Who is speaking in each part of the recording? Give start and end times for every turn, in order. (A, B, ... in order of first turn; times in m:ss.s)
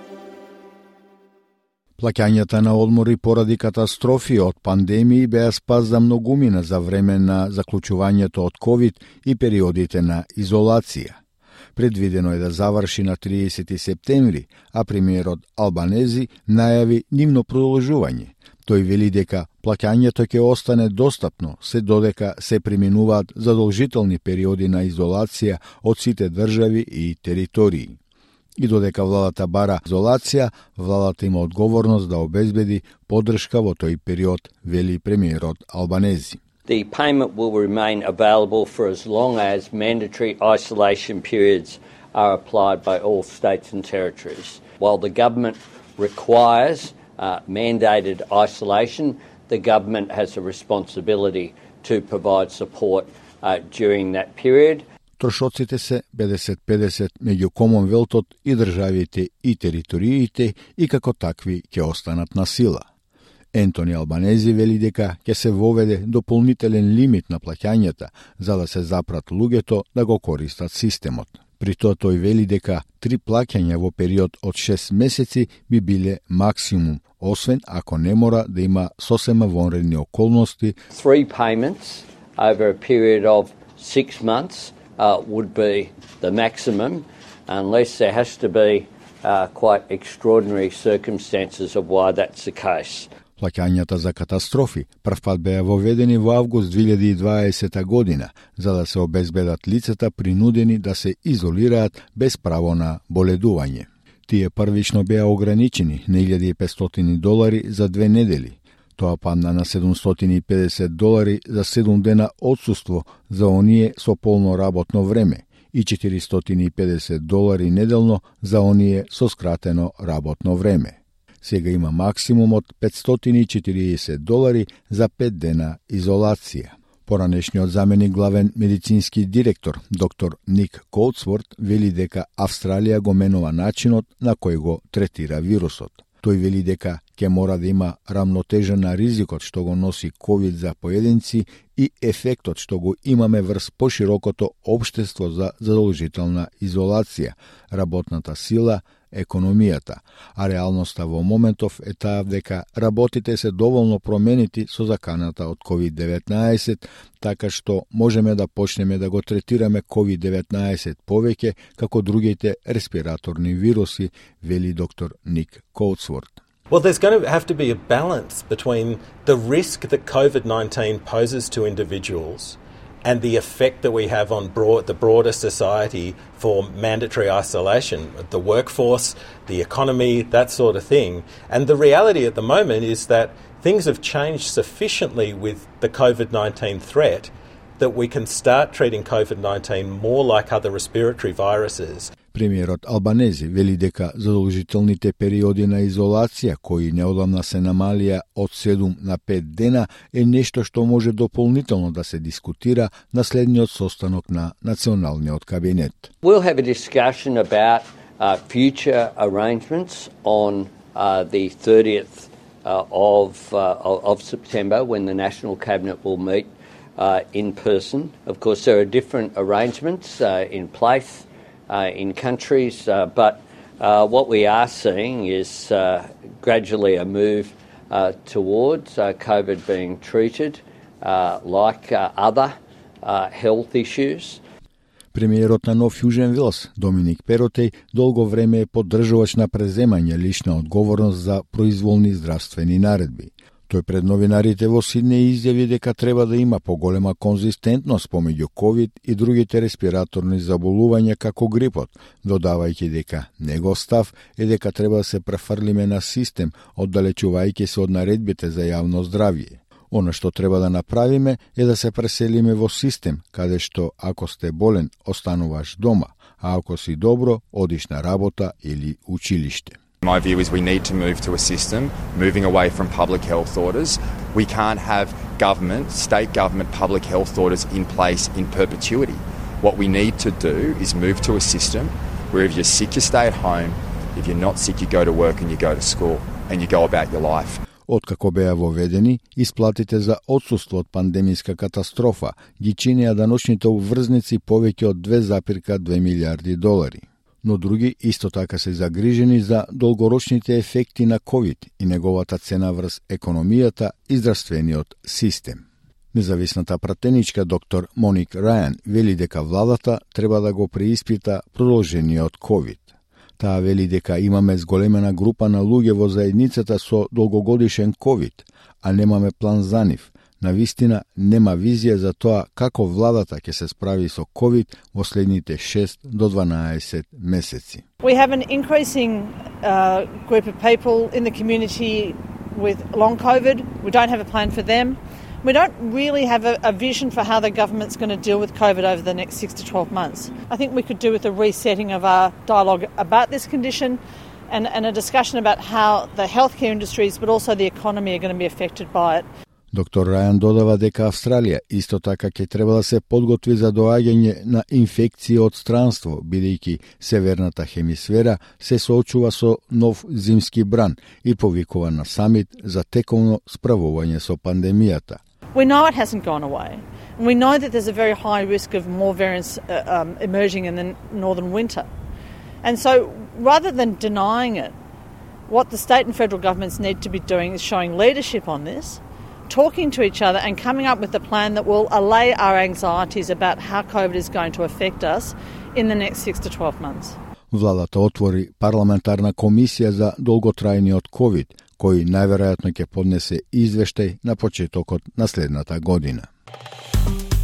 0:02.0-0:11.2 A
0:11.8-0:28.0 A
0:28.6-0:36.4 A
0:36.7-0:54.8 B
0:55.2-1:02.8 A
1:03.5-1:20.8 A
1:20.9-1:33.1 B
1:33.4-2:46.4 A
2:46.7-3:12.1 C
3:12.3-3:26.1 A
3:26.2-3:54.4 B
3:55.1-4:29.8 A
4:30.0-4:47.6 D
4:47.9-5:12.9 A
5:13.4-5:27.8 A
5:28.0-5:49.3 E
5:49.7-6:05.2 A
6:05.5-6:11.9 E
6:12.6-6:14.8 E
6:15.5-6:27.2 E
6:27.5-6:36.3 A